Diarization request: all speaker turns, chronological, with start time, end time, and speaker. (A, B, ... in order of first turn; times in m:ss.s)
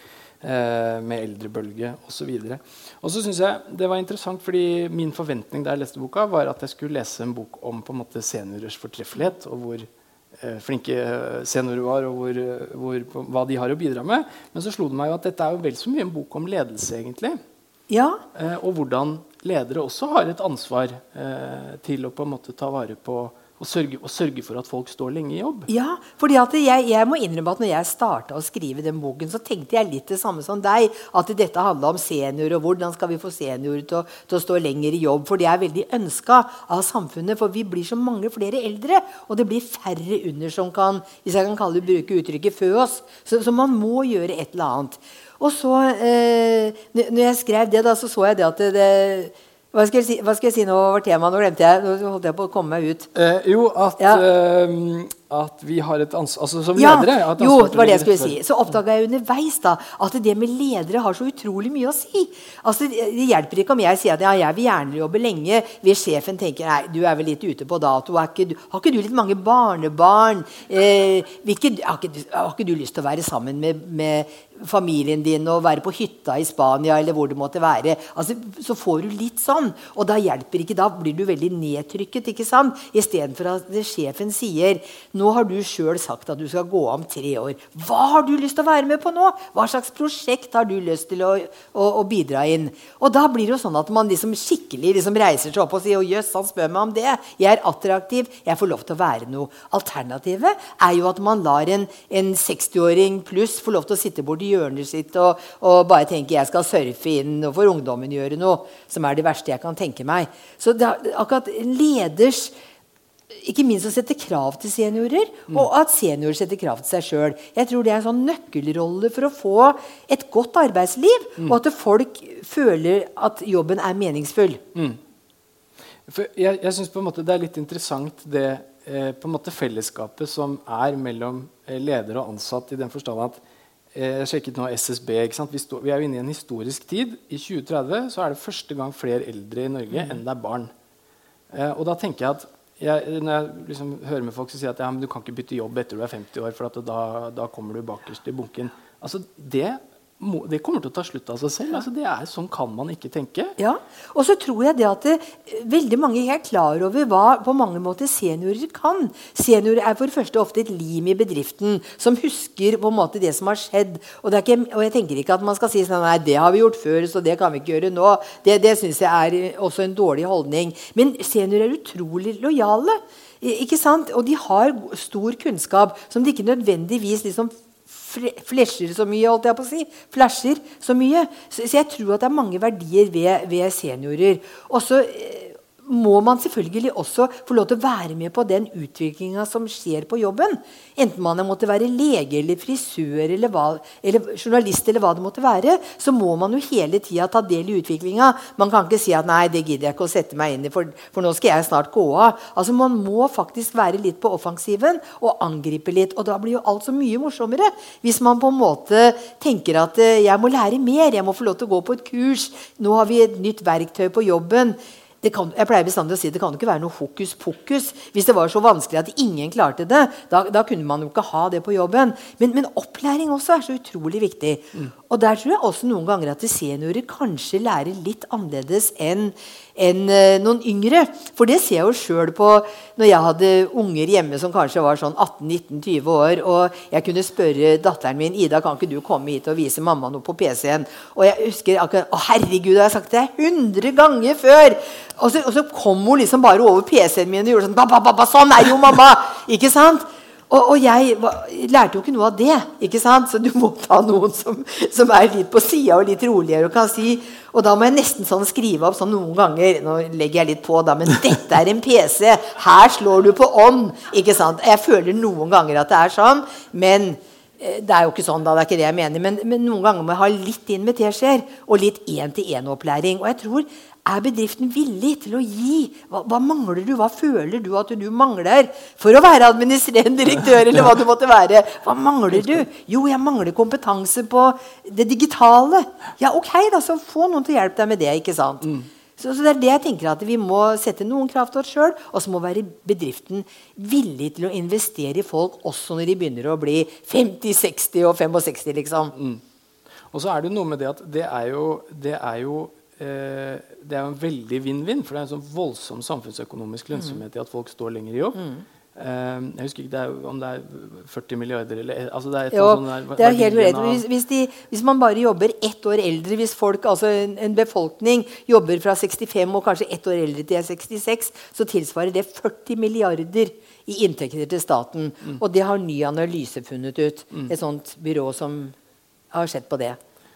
0:00.4-0:09.9 A
0:10.4-0:17.4 A
0:17.9-0:18.2 B
0:18.4-0:25.7 A
0:25.7-0:53.1 B
0:53.2-0:58.4 A
0:56.8-1:52.5 B
1:53.3-2:04.6 B
2:06.1-2:13.4 A
2:13.9-2:20.7 A
2:19.9-2:20.2 B
2:21.5-2:33.6 A
2:33.6-4:59.1 B
4:59.1-4:59.4 A
5:00.1-5:08.4 A
5:08.4-5:08.6 B
5:09.0-5:14.0 A
5:12.5-5:28.8 B
5:29.3-5:30.0 B